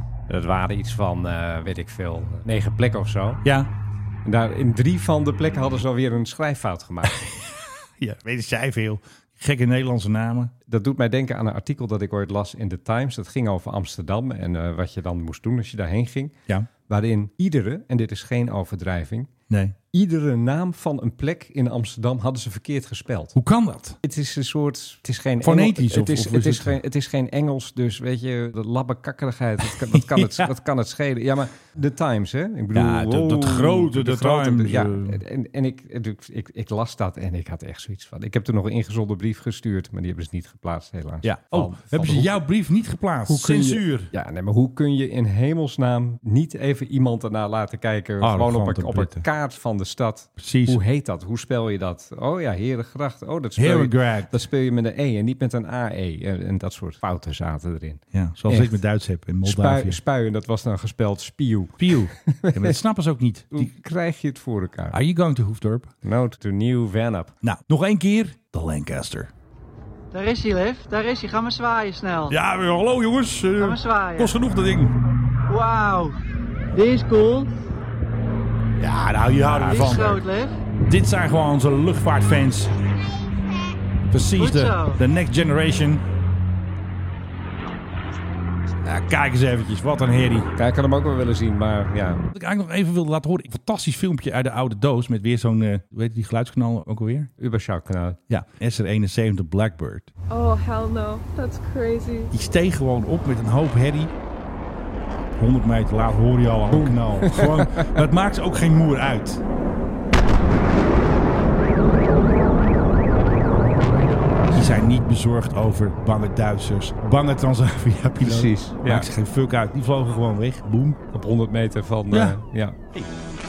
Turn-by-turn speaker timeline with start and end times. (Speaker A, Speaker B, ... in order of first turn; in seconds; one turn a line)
Speaker A: 0.3-3.4
Speaker B: 3.4-3.7
Speaker A: 4.2-7.2
Speaker B: 7.2-10.5
Speaker A: 10.7-16.4
Speaker A: 16.9-19.3
Speaker B: 19.5-19.8
Speaker A: 19.9-23.4
Speaker B: 23.4-24.0
Speaker A: 24.0-42.4
Speaker B: 25.4-26.8
Speaker B: 29.9-30.5
Speaker B: 32.7-35.2
Speaker B: 41.2-44.1
Speaker A: 43.3-58.8
Speaker B: 48.2-49.3
Speaker B: 50.4-50.8
Speaker B: 53.6-54.3
Speaker B: 58.1-60.0
Speaker A: 59.4-62.8
Speaker B: 61.8-63.7
Speaker A: 63.5-65.0
Speaker B: 64.9-65.9
Speaker A: 66.0-67.3
Speaker B: 67.4-69.3
Speaker C: 70.1-72.4
Speaker B: 72.3-75.0
Speaker C: 73.6-74.4
Speaker C: 75.5-76.2
Speaker C: 76.7-77.5
Speaker B: 78.8-80.2
Speaker C: 79.5-80.6
Speaker B: 80.8-82.7
Speaker B: 84.0-86.0
Speaker C: 84.4-85.0
Speaker B: 88.8-90.5
Speaker A: 90.6-92.2
Speaker B: 92.3-97.3
Speaker A: 97.4-98.2
Speaker B: 98.3-100.1
Speaker D: 100.3-102.3
Speaker B: 102.3-104.1
Speaker B: 105.4-109.4
Speaker A: 106.7-108.0
Speaker B: 114.5-121.0
Speaker A: 118.2-119.1
Speaker A: 121.1-122.8
Speaker B: 122.1-122.4